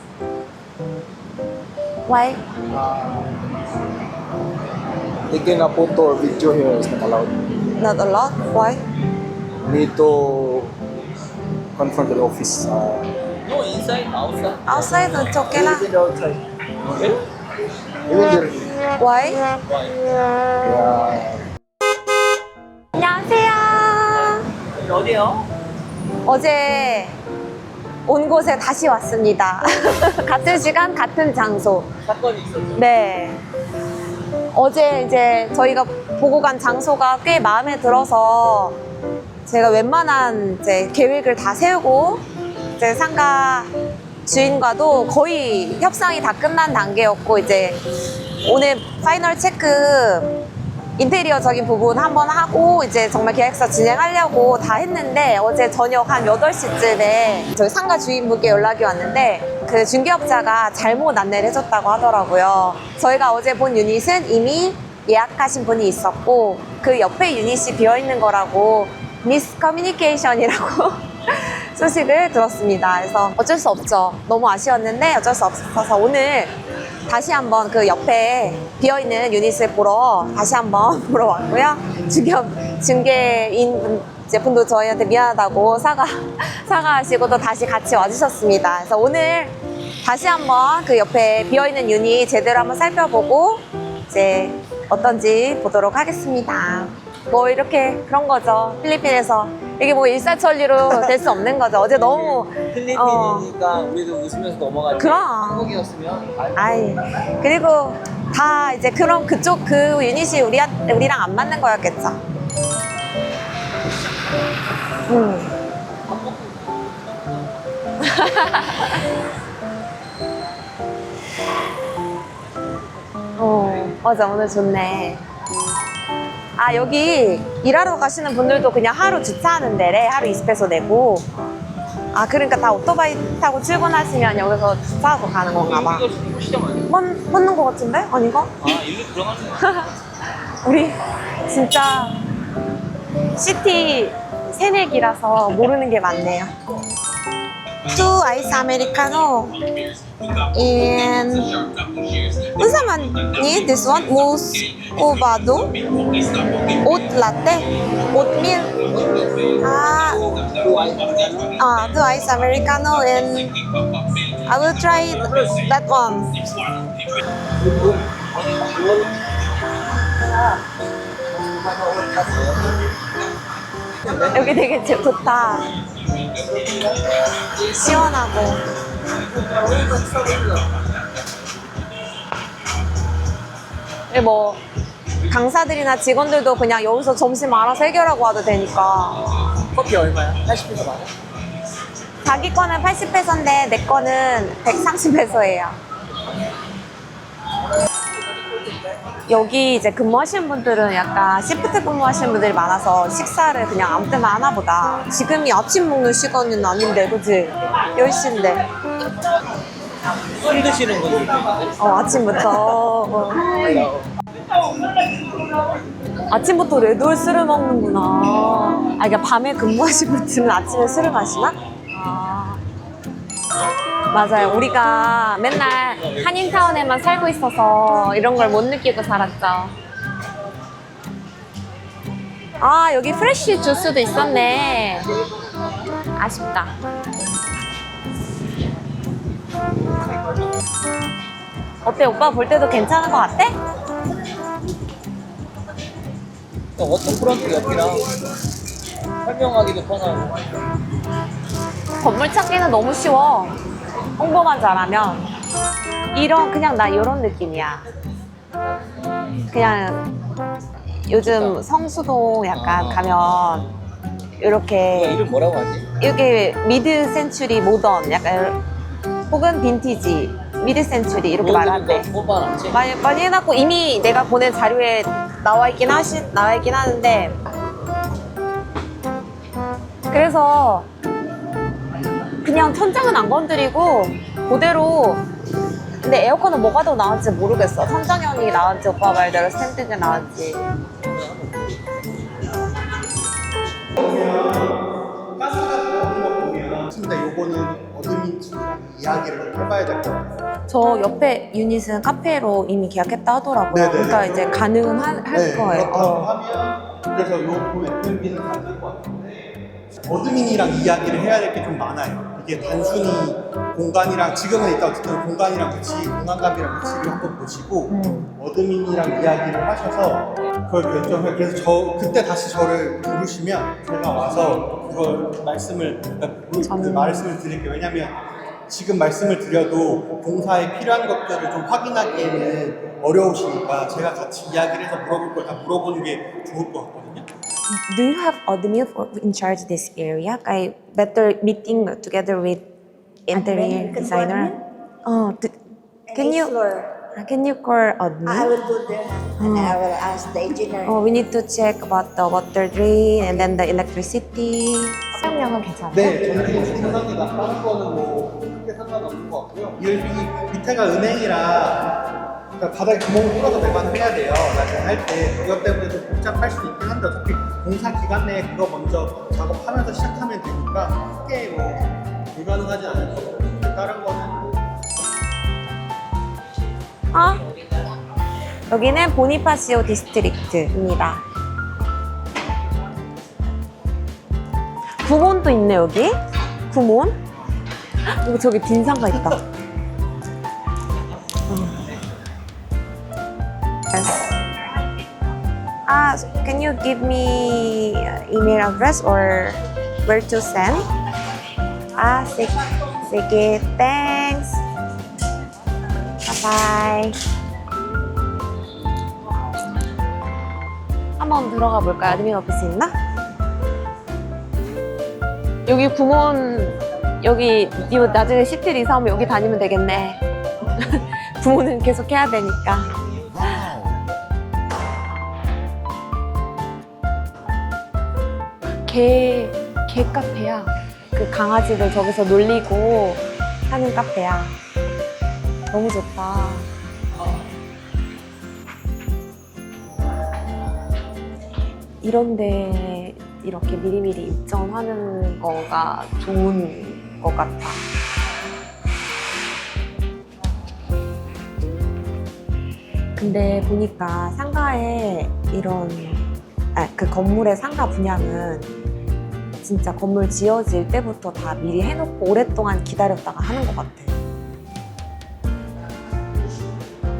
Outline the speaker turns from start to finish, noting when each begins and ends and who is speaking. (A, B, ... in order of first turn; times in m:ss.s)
0:02.0-0:02.4 A
0:02.7-0:03.3 B
0:05.3-0:07.4 B
0:07.8-0:08.8 A
0:09.6-0:10.7 B
0:11.8-0:13.1 B
0:13.4-0:15.2 C
0:14.6-0:15.9 A
0:15.5-0:16.4 B
0:18.1-0:18.7 B
0:19.0-0:19.4 A
0:19.6-0:20.0 C
0:20.6-0:21.4 B
0:22.9-0:24.5 A
0:24.7-0:25.5 C
0:26.2-0:27.2 A
0:28.0-0:31.9 A
0:32.0-0:32.8 C
0:32.7-0:33.4 A
0:34.5-0:38.8 A
0:39.4-0:42.2 A
0:42.8-0:43.7 A
0:44.3-0:47.8 A
0:48.4-0:50.3 A
0:51.0-1:16.5 A
1:17.1-1:43.5 A
1:41.9-1:47.0 C
1:45.0-1:45.7 A
1:46.6-1:52.2 A
1:55.1-1:55.5 A
1:56.1-1:57.5 C
1:58.0-1:59.1 A
2:03.4-2:05.2 A
2:06.6-2:11.2 A
2:12.1-2:16.0 A
2:15.6-2:16.9 C
2:16.9-2:18.5 A
2:18.6-2:19.6 C
2:19.6-2:19.9 A
2:20.6-2:22.2 A
2:23.4-2:26.5 A
2:27.9-2:29.6 A
2:30.4-2:31.6 A
2:32.4-2:35.8 A
2:36.8-2:38.7 A
2:38.9-2:39.5 C
2:39.6-2:40.3 A
2:40.3-2:41.5 C
2:41.6-2:43.6 A
2:44.4-2:46.4 A
2:47.6-2:49.1 C
2:51.4-2:52.8 C
2:54.1-2:54.4 C
2:54.3-2:55.7 A
2:56.4-2:56.9 C
2:57.6-2:58.0 C
2:57.7-2:58.6 A
2:59.3-3:00.7 C
3:04.1-3:04.6 A
3:05.3-3:09.2 A
3:09.7-3:11.1 C
3:12.2-3:15.8 A
3:19.3-3:28.6 A
3:30.4-3:32.7 C
3:31.8-3:33.6 A
3:33.5-3:34.1 C
3:36.3-3:42.6 A
3:44.1-3:49.7 A
3:44.3-3:44.8 C
3:45.5-3:46.6 C
3:52.6-3:55.1 A
3:56.2-3:56.7 A
4:01.8-4:03.5 A
4:06.8-4:08.1 C
4:09.2-4:10.4 C
4:12.0-4:13.5 A
4:14.2-4:15.2 A
4:16.1-4:17.8 A
4:19.5-4:20.0 A
4:21.0-4:23.7 A
4:21.2-4:21.6 C
4:22.5-4:23.1 C
4:24.4-4:25.2 A
4:24.9-4:25.9 C
4:26.0-4:28.6 A
4:29.3-4:32.1 A
4:31.4-4:32.8 C
4:32.7-4:37.4 A
4:40.1-4:40.9 A
4:42.4-4:45.2 A
4:46.0-4:50.6 A
4:51.0-4:51.6 C
4:54.0-4:54.8 D
4:55.4-5:00.3 D
5:00.7-5:06.3 A
5:03.7-5:04.6 D
5:05.3-5:09.4 D
5:10.0-5:28.1 D
5:17.9-5:18.3 A
5:26.6-5:27.3 A
5:28.7-5:37.3 D
5:37.7-5:42.6 A
5:43.3-5:45.5 A
5:43.3-5:44.6 E
5:46.1-5:46.9 E
5:46.1-5:48.5 A
5:48.2-5:50.9 E
5:49.4-5:49.8 A
5:50.8-5:56.5 A
5:55.9-6:01.9 D
6:02.6-6:14.5 D
6:17.1-6:17.4 A
6:18.7-6:21.2 A
6:25.0-6:26.2 A
6:26.7-6:27.2 A
6:28.2-6:29.4 A
6:31.5-6:31.8 A
6:33.9-6:34.4 A
6:35.9-6:40.9 A
6:42.0-6:44.6 A
6:46.2-6:47.1 A
6:51.2-6:52.9 A
6:55.7-7:02.9 A
7:03.4-7:03.9 A
7:08.8-7:14.6 A
7:15.7-7:16.7 A
7:22.0-7:27.8 A
7:33.2-7:38.7 A
7:39.6-7:44.1 A